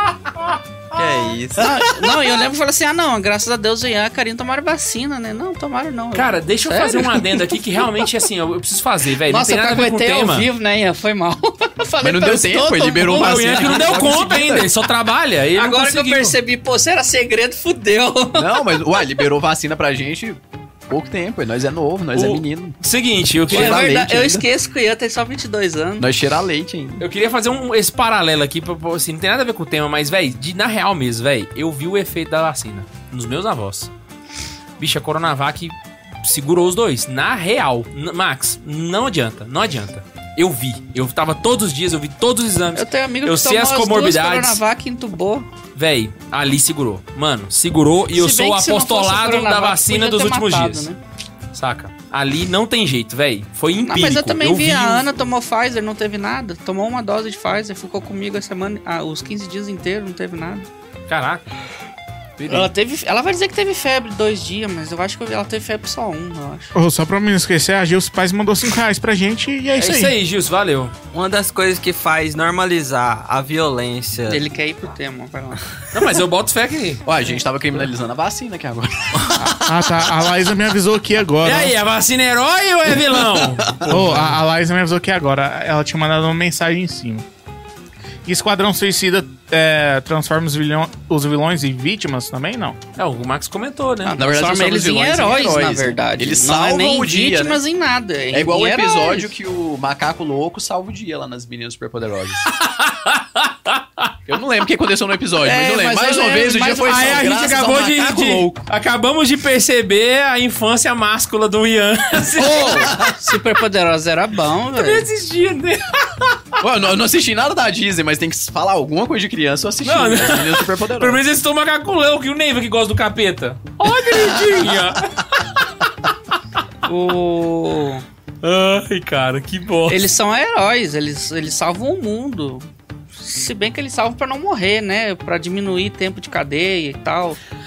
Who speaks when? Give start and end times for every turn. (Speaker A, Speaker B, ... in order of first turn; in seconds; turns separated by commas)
Speaker A: 0.9-1.7, Speaker B: 1.6-7.6, Speaker C: 1.6-2.1, Speaker D: 6.1-10.5, Speaker B: 9.3-14.2, Speaker C: 12.0-14.7, Speaker D: 13.1-16.4, Speaker B: 15.6-18.7, Speaker C: 18.3-22.8, Speaker D: 22.1-23.9, Speaker C: 23.4-24.5, Speaker B: 23.5-26.1, Speaker C: 26.0-27.0, Speaker D: 27.0-33.9, Speaker D: 34.8-44.6, Speaker B: 42.8-45.5, Speaker D: 45.8-50.9, Speaker B: 48.1-51.0, Speaker D: 51.5-55.1, Speaker B: 53.9-60.7, Speaker D: 61.1-61.4, Speaker C: 62.4-62.7, Speaker B: 62.5-66.7, Speaker E: 66.8-70.2, Speaker D: 69.8-70.9, Speaker A: 71.1-74.4, Speaker B: 74.3-75.6, Speaker D: 75.9-77.1, Speaker C: 77.0-79.8, Speaker E: 79.5-81.8, Speaker D: 81.4-84.3, Speaker C: 83.2-84.2, Speaker E: 83.9-87.2, Speaker E: 88.3-92.8, Speaker D: 93.0-94.2, Speaker B: 94.0-99.3, Speaker C: 94.2-97.6, Speaker C: 98.3-102.5, Speaker D: 102.5-104.1, Speaker C: 104.3-108.7, Speaker B: 105.4-107.0, Speaker D: 106.8-113.0, Speaker B: 112.4-115.1, Speaker C: 112.8-113.1, Speaker D: 114.7-116.6, Speaker C: 116.6-121.2, Speaker D: 119.8-125.7, Speaker C: 124.1-125.0, Speaker B: 126.8-128.0, Speaker D: 128.4-130.1, Speaker B: 129.9-132.7, Speaker B: 133.2-137.4